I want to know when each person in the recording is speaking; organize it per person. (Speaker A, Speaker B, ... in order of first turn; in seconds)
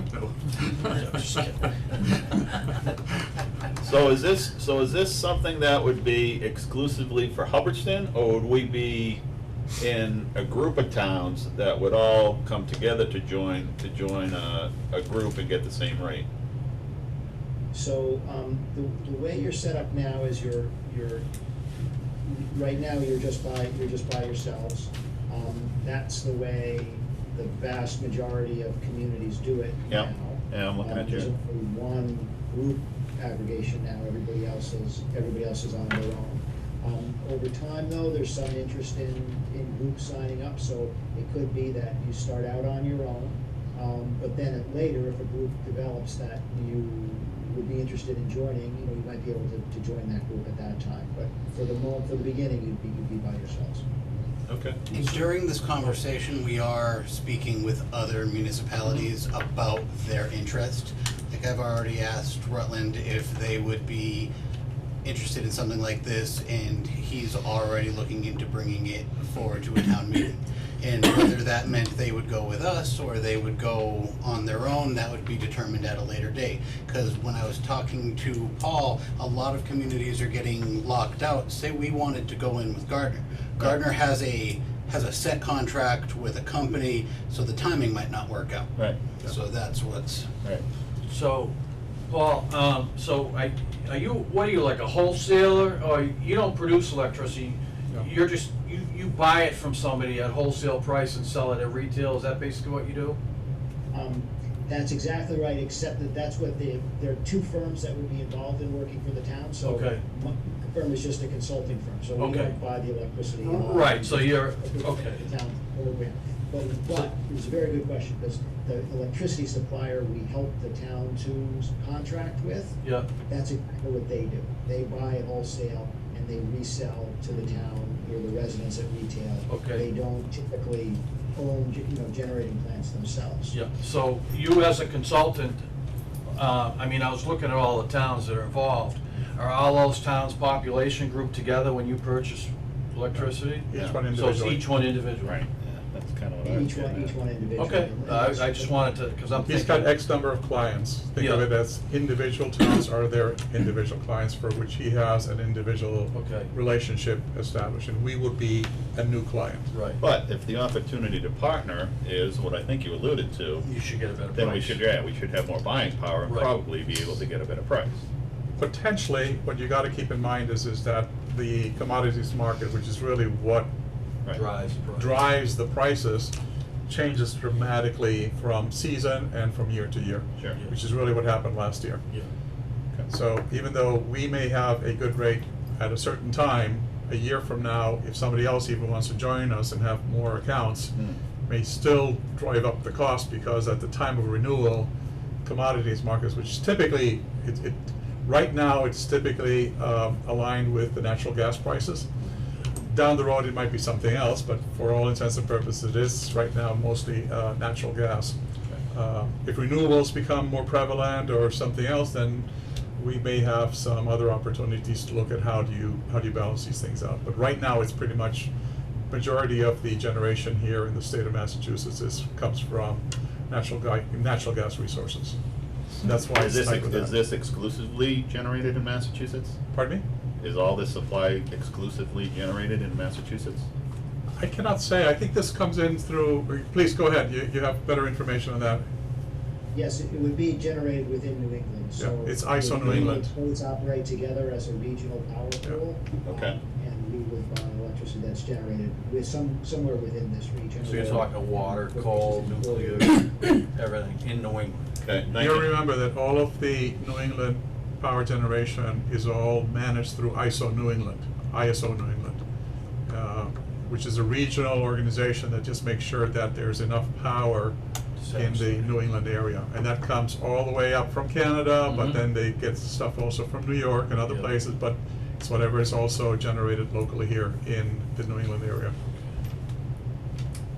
Speaker A: 0.1-0.9, 143.2-144.7, 149.4-159.7, 168.6-173.7, 175.0-176.3, 176.9-182.0, 183.1-190.9, 191.5-194.9, 195.4-202.1, 202.8-208.3, 208.9-218.5, 219.1-225.4, 226.0-227.2, 229.7-230.0, 234.3-238.9, 242.0-243.3, 255.3-262.4, 263.1-267.8, 268.3-278.9
Speaker B: 0.8-1.7, 91.1-91.5, 92.1-103.2, 109.6-110.0, 112.2-112.5, 113.5-115.3, 122.8-123.1, 129.5-129.8, 133.5-135.6, 136.3-145.4, 147.6-150.0, 151.2-151.5, 156.1-156.5, 159.7-160.0, 163.6-164.8, 166.2-166.5, 174.3-175.2, 250.8-254.9, 268.2-268.9, 271.9-272.2
Speaker C: 3.8-9.2, 9.8-16.3, 29.9-31.3, 54.5-54.9, 143.7-144.0, 145.2-147.1, 160.0-163.7, 164.3-168.0, 226.0-229.6, 230.4-233.7, 246.3-246.6, 255.0-255.8
Speaker D: 17.7-21.3, 22.2-53.9, 103.9-122.8, 123.3-133.6, 146.4-148.8, 239.7-253.3
Speaker E: 54.9-64.3, 65.0-88.7, 89.3-90.3